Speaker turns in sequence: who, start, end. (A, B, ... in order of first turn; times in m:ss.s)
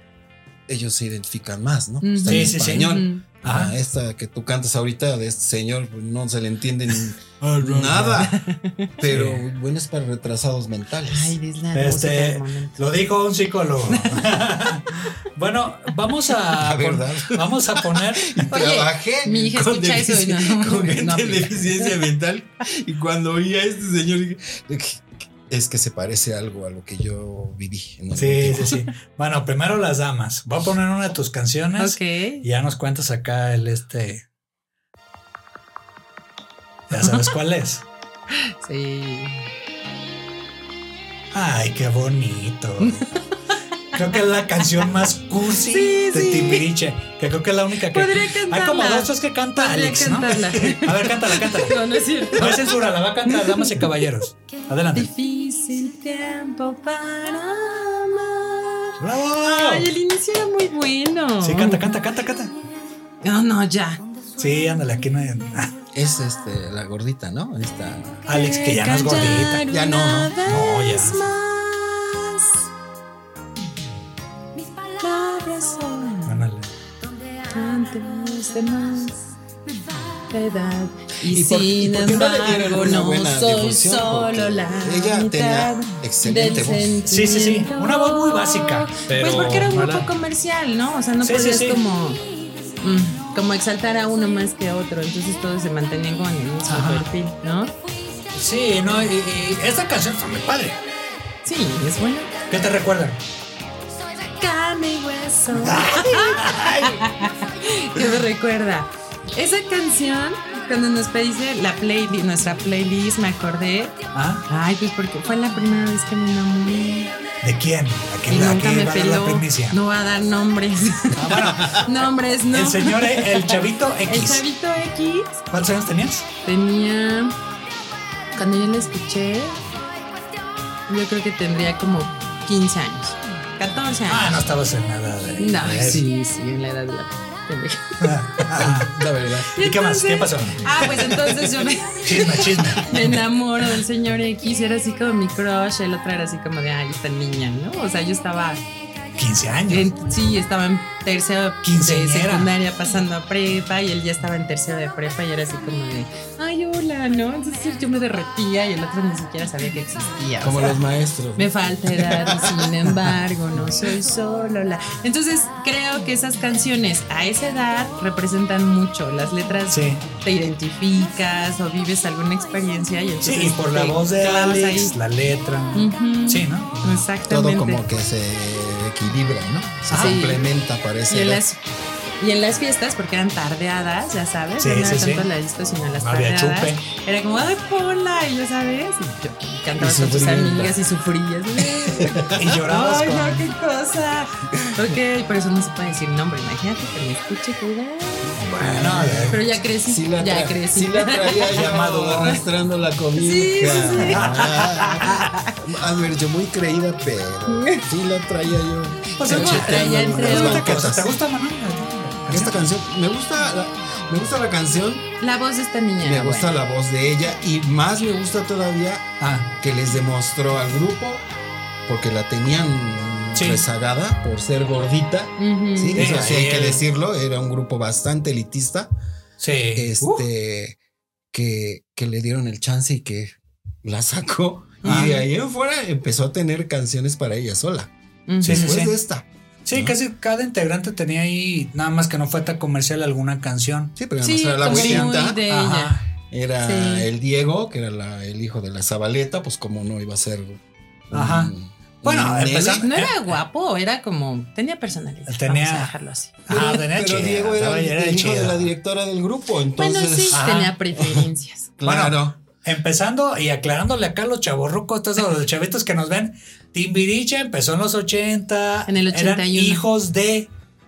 0:00.7-0:08.4 A
0:02.0-0:03.2 B
0:02.3-0:02.9 C
0:03.4-0:03.7 C
0:07.4-0:08.3 C
0:08.2-0:08.9 B
0:09.0-0:11.4 A
0:09.0-0:09.4 C
0:11.0-0:12.8 B
0:11.7-0:18.5 C
0:13.9-0:14.2 B
0:16.6-0:28.8 A
0:18.5-0:22.0 B
0:28.1-0:34.2 C
0:31.8-0:32.4 B
0:36.9-0:37.8 C
0:37.0-0:37.3 B
0:38.3-0:39.5 B
0:41.3-0:43.0 C
0:43.9-0:51.8 C
0:45.5-0:46.7 B
0:47.9-0:54.0 B
0:52.3-0:55.1 C
0:54.9-1:01.9 B
0:59.0-0:59.9 C
1:01.4-1:02.5 C
1:03.2-1:04.0 B
1:04.4-1:05.7 C
1:05.9-1:08.2 A
1:08.3-1:09.6 C
1:08.3-1:12.6 B
1:09.6-1:10.4 A
1:10.4-1:11.2 C
1:14.9-1:16.5 B
1:16.2-1:16.7 C
1:17.5-1:19.3 B
1:20.3-1:32.2 B
1:21.2-1:27.1 A
1:27.1-1:30.1 C
1:31.2-1:31.8 C
1:32.8-1:37.7 B
1:36.7-1:37.1 C
1:38.3-1:40.8 C
1:41.4-1:42.3 B
1:42.5-1:43.2 C
1:44.4-1:57.2 B
1:45.5-1:47.0 C
1:54.1-1:54.5 C
1:57.4-1:59.8 C
1:58.3-2:05.4 B
2:01.1-2:01.8 C
2:01.6-2:01.8 A
2:02.5-2:04.4 C
2:05.5-2:06.3 C
2:06.4-2:07.3 B
2:08.4-2:09.6 B
2:10.9-2:14.4 B
2:14.1-2:16.0 C
2:15.4-2:18.4 B
2:18.0-2:18.9 C
2:18.5-2:19.5 A
2:19.6-2:21.1 C
2:19.6-2:28.6 B
2:22.0-2:23.2 C
2:29.2-2:29.9 C
2:29.7-2:40.8 B
2:31.6-2:32.5 C
2:40.4-2:42.5 A
2:41.4-2:55.0 B
2:49.7-2:50.0 C
2:53.2-2:57.0 C
2:55.7-2:57.8 B
2:57.3-3:01.4 A
2:59.9-3:00.2 C
3:00.0-3:00.4 B
3:01.1-3:01.6 B
3:02.2-3:18.4 B
3:04.6-3:05.3 C
3:06.0-3:06.8 C
3:09.8-3:10.8 A
3:11.6-3:12.4 A
3:12.3-3:13.5 C
3:18.4-3:19.4 C
3:18.4-3:31.1 A
3:19.3-3:21.7 B
3:21.5-3:22.4 C
3:23.2-3:24.4 B
3:24.1-3:25.2 C
3:25.0-3:25.5 B
3:27.5-3:27.8 B
3:29.2-3:32.6 C
3:29.2-3:30.8 B
3:32.3-3:35.1 A
3:35.2-3:36.5 B
3:36.0-3:41.2 A
3:39.2-3:39.5 C
3:41.8-3:48.9 A
3:43.3-3:43.6 C
3:45.4-3:46.2 B
3:46.0-3:46.8 C
3:49.4-3:50.2 C
3:49.7-3:50.8 A
3:51.3-3:57.9 A
3:54.8-3:55.1 C
3:54.8-3:55.2 B
3:58.3-3:58.8 B
3:58.4-3:58.9 C
3:58.4-4:00.0 A
3:59.6-4:04.0 C
4:04.0-4:05.4 A
4:04.2-4:06.0 B
4:04.6-4:06.0 C
4:06.3-4:12.9 A
4:06.6-4:07.1 B
4:11.1-4:13.3 C
4:12.8-4:16.7 B
4:15.3-4:15.9 C
4:16.5-4:18.7 C
4:16.5-4:22.4 A
4:19.8-4:21.7 B
4:20.3-4:20.8 C
4:21.8-4:30.5 C
4:28.9-4:29.8 B